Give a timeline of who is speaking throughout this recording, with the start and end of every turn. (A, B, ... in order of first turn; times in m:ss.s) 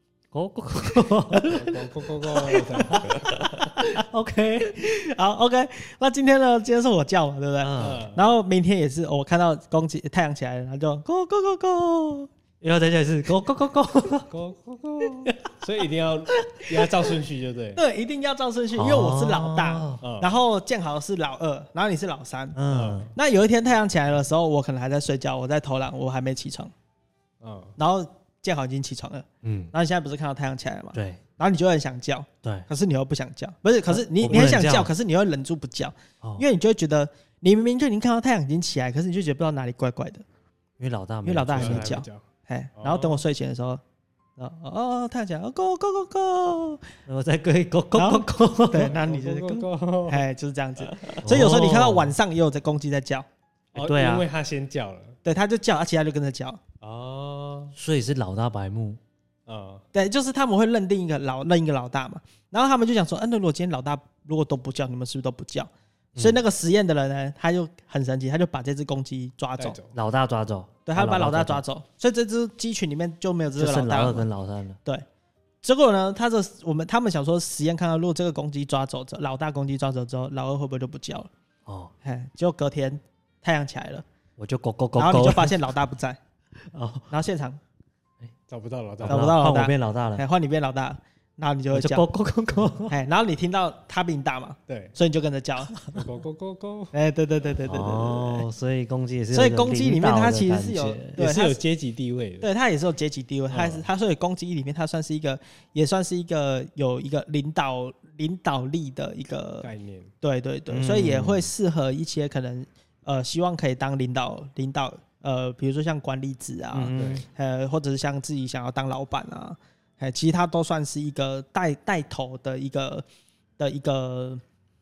0:00.3-0:01.6 A
0:01.3-0:04.1 B
0:01.4-0:03.6 C
0:03.8-0:04.8 A
0:04.6-0:12.3 B
0:07.6-0:08.0 A
0:07.8-0:08.3 C
0:12.6-0:14.3 A
0:14.3-0:17.8 C
0:16.5-0:17.2 B
0:17.8-0:22.6 B
0:18.8-0:20.0 A
0:20.0-0:20.4 C
0:22.6-0:23.1 A
0:22.7-0:23.1 C
0:23.1-0:26.7 B
0:27.4-0:27.8 C
0:27.8-0:40.2 B
0:29.4-0:29.7 A
0:30.9-0:31.2 A
0:32.4-0:32.7 A
0:33.9-0:34.9 A
0:40.8-0:41.9 A
0:41.2-0:43.8 B
0:41.6-0:42.3 C
0:42.8-0:43.3 C
0:44.4-0:46.9 B
0:47.1-0:48.9 A
0:48.0-0:53.3 B
0:48.8-0:50.3 C
0:50.8-0:51.4 C
0:51.2-0:52.2 A
0:53.7-0:55.2 C
0:53.8-0:54.3 A
0:55.2-0:56.6 B
0:56.8-0:57.7 C
0:57.8-0:59.0 A
0:59.5-0:59.8 C
0:59.9-1:09.8 B
1:09.6-1:10.0 C
1:09.9-1:11.6 A
1:10.9-1:14.3 B
1:13.6-1:14.8 A
1:15.6-1:21.3 B
1:21.7-1:21.9 A
1:22.0-1:24.0 B
1:24.4-1:25.6 A
1:25.0-1:26.2 B
1:26.7-1:27.1 A
1:27.1-1:27.6 B
1:28.5-1:29.4 C
1:29.0-1:30.2 A
1:29.1-1:32.1 B
1:31.7-1:33.0 A
1:32.9-1:35.9 B
1:34.7-1:35.0 C
1:35.9-1:37.0 C
1:36.9-1:38.5 B
1:37.7-1:41.2 A
1:39.3-1:41.6 B
1:41.2-1:42.5 C
1:42.4-1:49.7 B
1:43.5-1:43.9 C
1:49.6-1:50.1 C
1:50.2-2:03.0 B
1:50.7-1:51.5 A
1:56.7-1:57.2 A
1:56.9-1:57.2 C
2:03.6-2:04.4 B